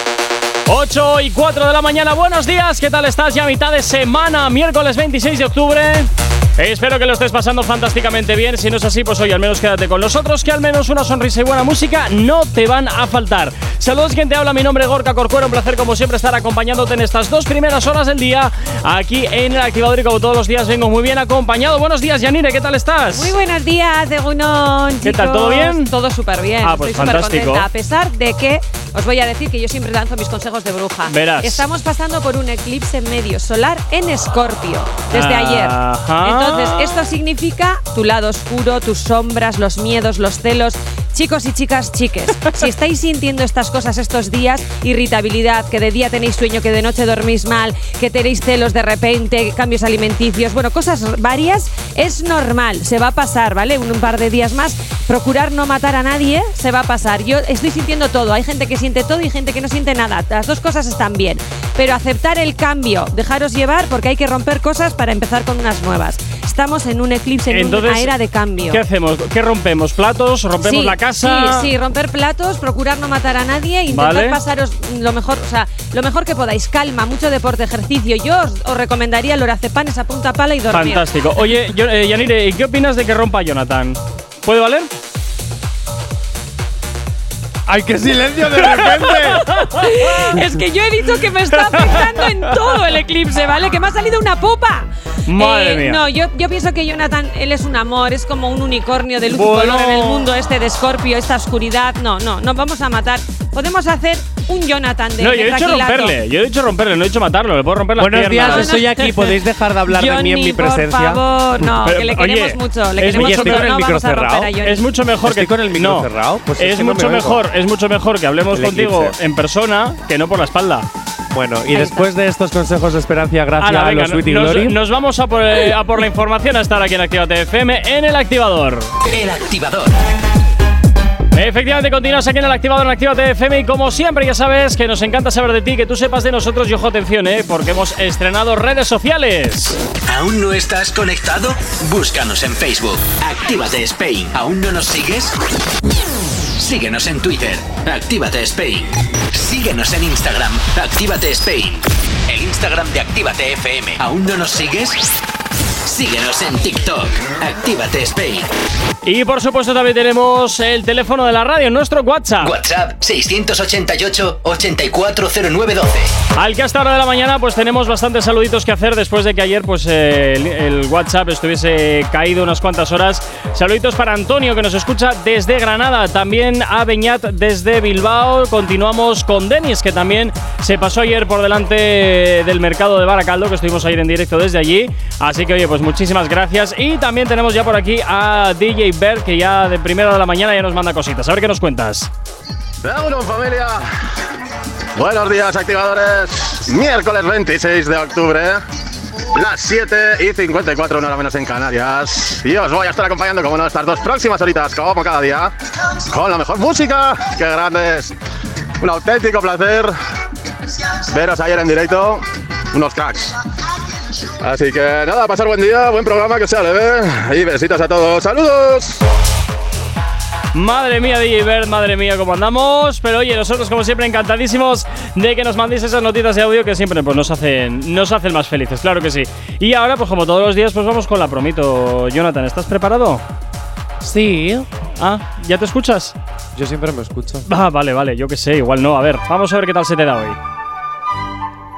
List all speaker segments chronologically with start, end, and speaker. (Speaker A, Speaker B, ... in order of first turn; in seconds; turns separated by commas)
Speaker A: 0.7-23.3, Speaker B: 23.1-68.8, Speaker A: 25.0-25.9, Speaker A: 26.6-27.7, Speaker A: 31.1-31.6, Speaker A: 35.1-37.0, Speaker A: 67.5-68.1, Speaker A: 68.7-71.7, Speaker B: 70.6-81.5, Speaker A: 73.9-74.4, Speaker A: 80.7-84.9, Speaker C: 87.7-89.6, Speaker A: 88.7-89.6, Speaker B: 89.4-106.2, Speaker A: 91.6-93.0, Speaker A: 95.3-96.0, Speaker A: 99.3-100.3, Speaker A: 105.2-108.8, Speaker C: 108.0-111.2, Speaker B: 108.3-109.3, Speaker B: 109.9-114.8, Speaker A: 111.6-113.7, Speaker C: 113.1-114.5, Speaker A: 114.6-120.9, Speaker C: 115.2-117.4, Speaker C: 118.5-119.2, Speaker C: 121.3-124.8, Speaker B: 121.7-122.1, Speaker A: 123.6-128.9, Speaker D: 129.1-130.0, Speaker A: 131.3-139.8, Speaker D: 140.1-145.4, Speaker D: 146.6-155.1, Speaker D: 155.8-158.5, Speaker A: 159.0-162.5, Speaker D: 162.4-166.1, Speaker A: 166.3-192.1, Speaker E: 192.8-193.9, Speaker E: 194.9-198.6, Speaker E: 199.3-208.2, Speaker E: 208.8-209.9, Speaker E: 210.7-213.4, Speaker E: 214.4-219.0, Speaker A: 220.5-233.2, Speaker C: 234.0-234.7, Speaker A: 235.0-236.1, Speaker C: 236.5-237.5, Speaker A: 237.4-240.4